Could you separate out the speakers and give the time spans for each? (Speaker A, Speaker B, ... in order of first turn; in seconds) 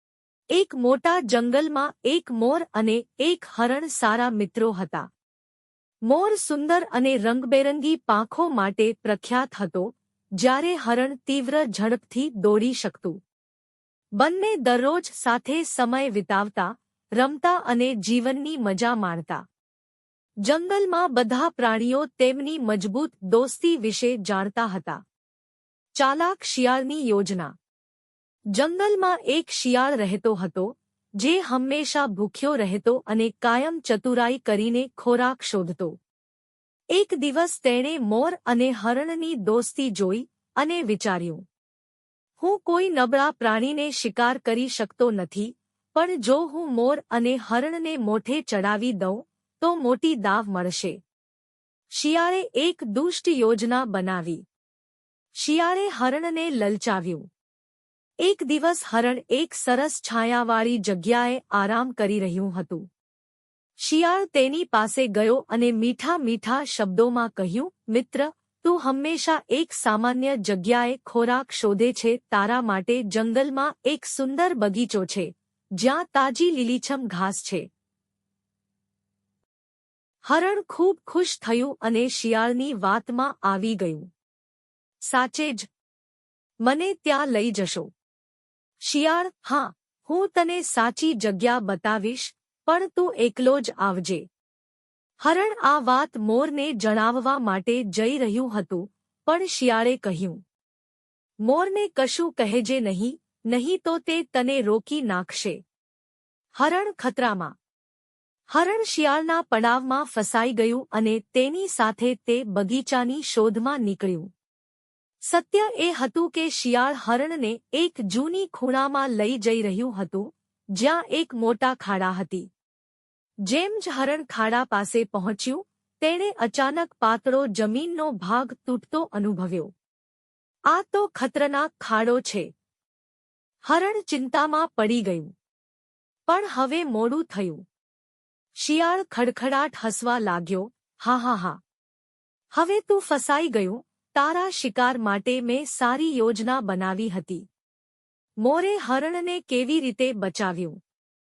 Speaker A: 0.5-5.1, 6.1-13.2, 14.2-19.4, 20.4-25.0, 25.9-27.5, 28.5-36.0, 36.9-41.4, 42.4-51.0, 51.9-54.4, 55.4-57.3, 58.2-62.9, 63.8-77.7, 80.2-84.1, 85.1-85.7, 86.6-87.9, 88.8-94.3, 95.2-100.4, 101.4-105.6, 106.6-107.5, 108.5-114.3, 115.3-122.5, 123.5-129.7, 130.7-132.5, 133.6-135.3, 136.3-137.6, 138.6-141.6, 142.5-147.5, 148.4-150.8